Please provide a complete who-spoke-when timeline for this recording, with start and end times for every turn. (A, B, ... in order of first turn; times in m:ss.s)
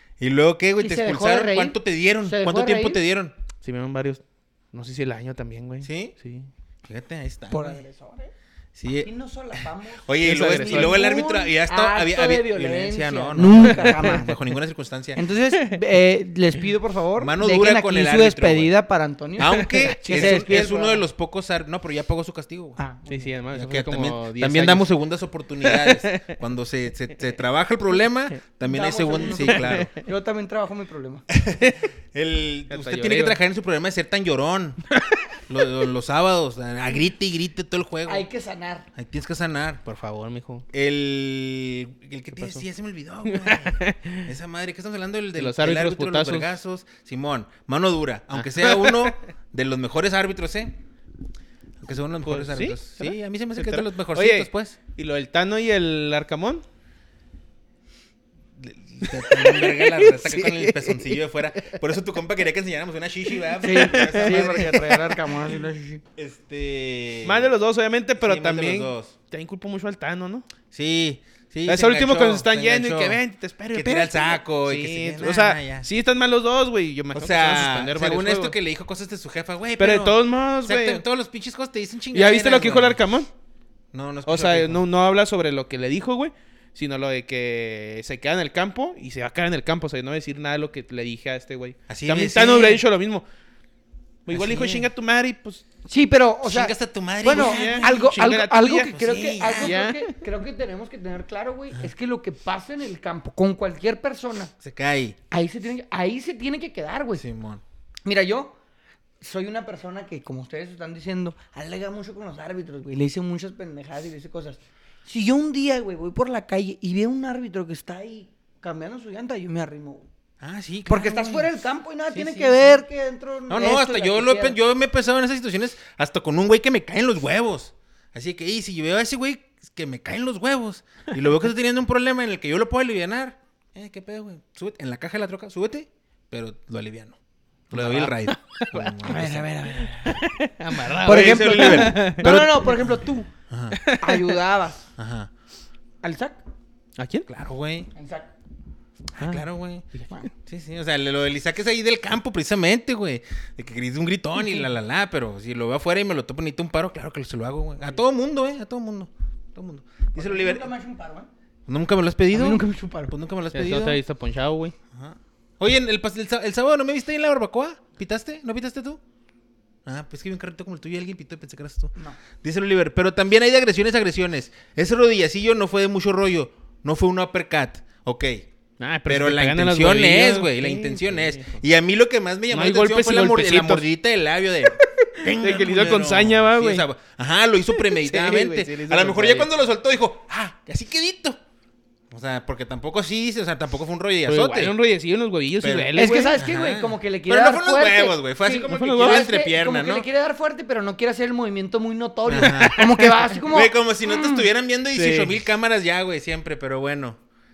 0:00.2-0:03.4 A
0:00.8-0:03.0 B
0:03.6-0:04.2 C
0:04.7-0:06.5 C
0:05.8-0:06.1 A
0:06.8-0:07.8 A
0:07.5-0:08.3 B
0:08.7-0:09.1 A
0:09.0-0:14.3 B
0:10.0-0:15.2 A
0:10.2-0:11.0 C
0:13.6-0:14.2 C
0:15.2-0:21.0 B
0:17.2-0:18.7 A
0:19.4-0:22.8 A
0:19.5-0:20.5 C
0:22.8-0:23.3 B
0:23.1-0:24.9 C
0:23.5-0:29.9 A
0:25.6-0:26.3 C
0:28.6-0:31.2 B
0:29.3-0:29.9 C
0:31.3-0:34.8 A
0:32.7-0:33.4 C
0:35.5-0:38.2 A
0:38.0-0:38.9 B
0:38.9-0:39.8 A
0:39.8-0:40.6 C
0:40.7-0:50.7 A
0:42.4-0:42.6 C
0:43.2-0:44.3 C
0:45.4-0:46.5 C
0:48.3-0:49.2 C
0:51.8-0:54.8 A
0:52.2-0:56.6 C
0:58.6-1:04.8 A
0:59.1-1:01.8 C
1:03.6-1:04.9 C
1:03.6-1:06.0 B
1:06.2-1:07.5 A
1:07.2-1:10.5 C
1:08.2-1:09.1 A
1:10.7-1:13.2 A
1:11.7-1:18.5 C
1:13.7-1:15.9 A
1:17.1-1:23.0 A
1:19.8-1:21.0 C
1:22.1-1:23.3 C
1:23.9-1:24.8 A
1:24.2-1:33.2 C
1:31.9-1:32.8 A
1:34.2-1:35.6 C
1:34.3-1:34.9 A
1:35.9-1:44.5 B
1:36.4-1:38.0 A
1:37.3-1:38.9 C
1:38.9-1:39.8 A
1:39.5-1:40.2 C
1:44.6-1:45.2 A
1:45.3-1:47.2 B
1:47.2-1:47.6 A
1:48.0-1:48.6 B
1:49.2-2:00.1 B
2:00.4-2:01.5 A
2:00.8-2:04.6 B
2:02.1-2:02.7 A
2:03.5-2:17.2 A
2:17.7-2:19.5 A
2:17.7-2:22.5 C
2:19.1-2:20.2 B
2:21.0-2:23.0 A
2:21.0-2:23.3 B
2:23.5-2:23.8 A
2:23.7-2:24.4 C
2:24.0-2:24.8 B
2:25.0-2:25.3 A
2:26.0-2:26.4 B
2:27.0-2:27.3 C
2:27.3-2:27.9 A
2:27.9-2:28.3 B
2:29.2-2:40.7 A
2:29.2-2:30.1 C
2:40.1-2:41.3 B
2:41.7-2:44.0 A
2:42.3-2:43.1 B
2:43.5-2:44.7 C
2:44.9-2:49.0 A
2:49.8-2:58.4 A
2:58.8-3:01.6 C
2:59.1-3:11.4 A
3:02.5-3:03.8 C
3:05.0-3:06.8 C
3:07.7-3:09.5 C
3:12.1-3:14.7 A
3:14.2-3:16.4 C
3:15.6-3:20.0 A
3:15.9-3:24.4 B
3:18.7-3:19.2 C
3:22.3-3:27.2 A
3:22.4-3:23.1 C
3:24.9-3:25.4 C